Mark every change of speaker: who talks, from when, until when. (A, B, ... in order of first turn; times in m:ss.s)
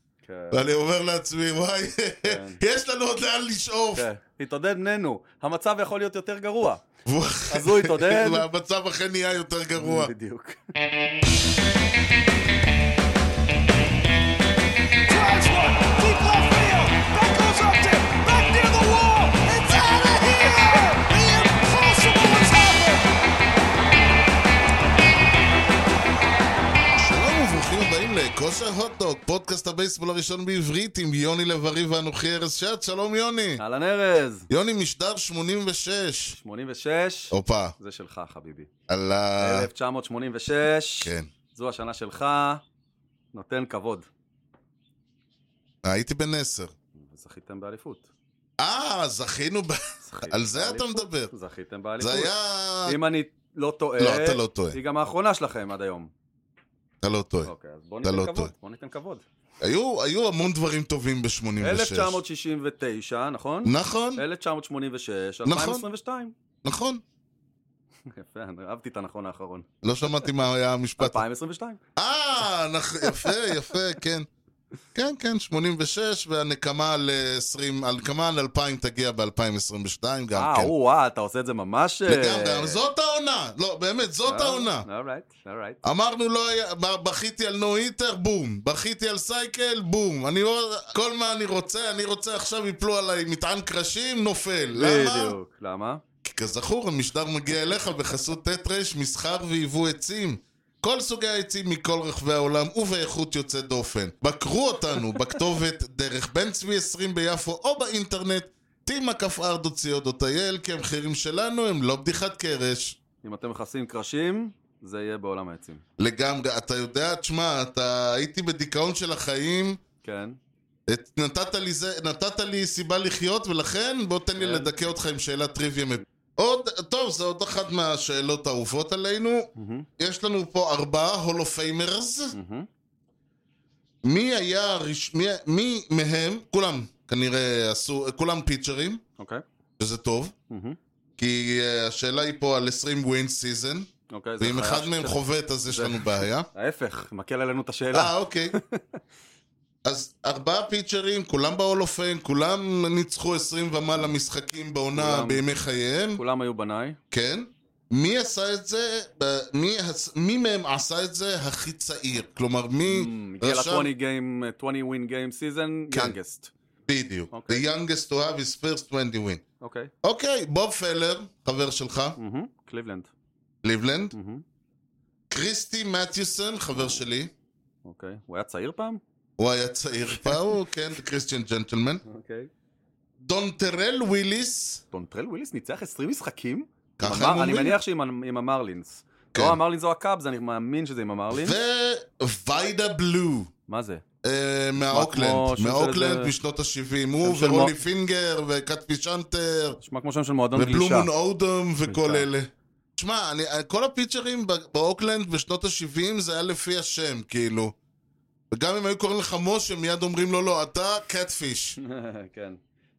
0:00.2-0:00.7 A
0:00.5-0:04.1 B
0:02.2-0:02.6 A
0:03.9-0:06.8 A
0:07.1-0:10.1 B
0:07.5-0:08.5 A
0:09.7-0:10.7 A
0:15.1-0:23.0 C
0:17.0-0:18.2 A
0:19.0-0:21.0 A
0:27.0-0:33.6 B
0:33.6-0:34.5 A
0:34.5-0:36.4 B
0:36.3-0:38.7 A
0:37.3-0:37.8 B
0:38.9-0:39.7 B
0:39.4-0:42.6 A
0:41.0-0:41.3 B
0:43.3-0:44.1 A
0:45.8-0:46.7 B
0:47.0-0:48.1 A
0:48.6-0:51.3 B
0:50.0-0:52.3 A
0:52.0-0:53.0 B
0:52.9-0:56.1 A
0:54.0-0:54.8 B
0:57.0-0:57.5 B
0:57.4-0:59.2 A
0:58.0-0:58.5 B
0:59.6-1:02.2 B
1:01.6-1:06.3 A
1:03.6-1:04.2 B
1:05.4-1:05.8 B
1:06.6-1:07.0 B
1:08.1-1:09.7 A
1:09.8-1:11.2 B
1:11.0-1:11.8 A
1:12.0-1:14.3 B
1:13.0-1:13.8 A
1:15.0-1:20.7 B
1:20.4-1:22.8 A
1:22.1-1:24.9 B
1:24.3-1:25.8 A
1:25.8-1:35.4 B
1:34.7-1:36.0 A
1:36.2-1:53.0 B
1:53.2-1:55.8 A
1:56.0-1:59.8 B
2:00.0-2:00.4 A
2:00.9-2:12.4 B
2:04.4-2:04.8 A
2:09.6-2:09.9 A
2:12.3-2:12.7 A
2:14.0-2:19.0 B
2:19.2-2:19.4 A
2:19.8-2:20.3 B
2:20.5-2:20.8 A
2:21.2-2:26.5 B
2:24.1-2:29.0 A
2:27.9-2:28.6 B
2:29.8-2:36.2 B
2:35.0-2:35.4 A
2:36.2-2:37.0 A
2:37.1-2:43.9 B
2:42.8-2:46.5 A
2:46.9-2:49.4 B
2:47.3-2:47.6 A
2:49.6-2:49.9 A
2:50.0-2:52.2 B
2:52.2-2:53.1 A
2:53.6-2:54.2 B
2:54.1-2:54.4 A
2:55.3-2:57.3 B
2:57.8-2:59.0 A
2:59.4-3:02.0 B
3:00.2-3:00.6 A
3:02.1-3:02.5 A
3:03.2-3:04.8 B
3:04.9-3:11.6 A
3:07.0-3:07.8 B
3:09.3-3:09.6 B
3:11.3-3:13.5 B
3:13.7-3:14.0 A
3:14.2-3:19.8 B
3:14.8-3:16.3 A
3:17.2-3:17.8 A
3:19.8-3:21.1 A
3:20.6-3:27.8 B
3:21.9-3:22.3 A
3:28.5-3:31.8 B
3:31.8-3:32.6 A